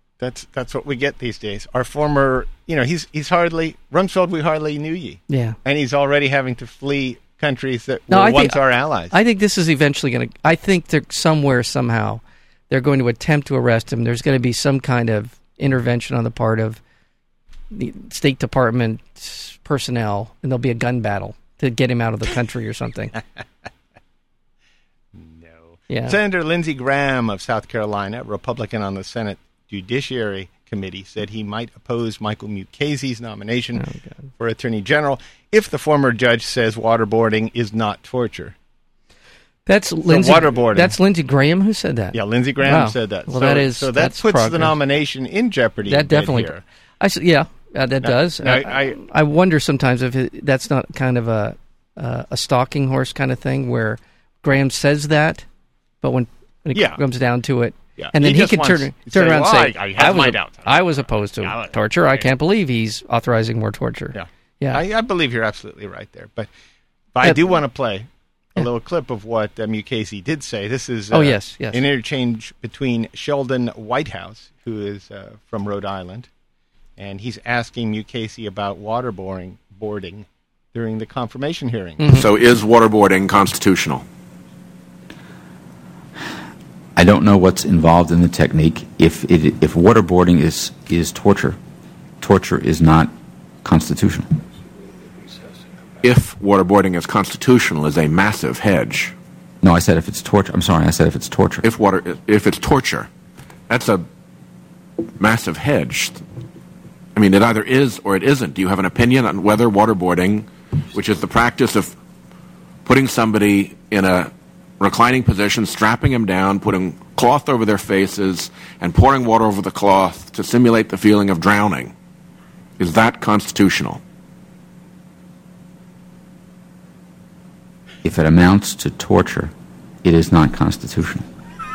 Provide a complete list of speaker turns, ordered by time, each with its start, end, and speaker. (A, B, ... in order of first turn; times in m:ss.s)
0:00.2-0:09.2 A
0:05.3-0:05.6 B
0:08.1-0:16.8 B
0:17.7-0:23.2 B
0:25.1-0:33.8 A
0:25.9-0:26.2 B
0:33.8-0:34.1 B
0:34.4-0:38.5 A
0:39.6-0:44.7 B
0:40.0-0:41.0 A
0:42.1-0:46.6 A
0:45.8-0:55.4 B
0:48.0-0:49.0 A
0:56.0-1:04.8 B
0:56.7-0:57.0 A
0:58.0-1:02.2 A
1:04.1-1:06.5 A
1:07.1-1:16.3 A
1:11.1-1:11.8 B
1:17.0-1:22.1 A
1:22.0-1:22.2 B
1:22.1-1:24.0 C
1:27.0-1:31.6 D
1:32.2-1:34.4 D
1:36.0-1:39.1 C
1:39.6-1:41.6 D
1:41.6-1:43.1 C
1:43.7-1:44.0 C
1:45.2-1:46.2 C
1:47.1-1:51.9 C
1:52.8-2:01.9 C
2:02.8-2:04.0 C
2:08.0-2:09.5 D
2:10.0-2:11.2 D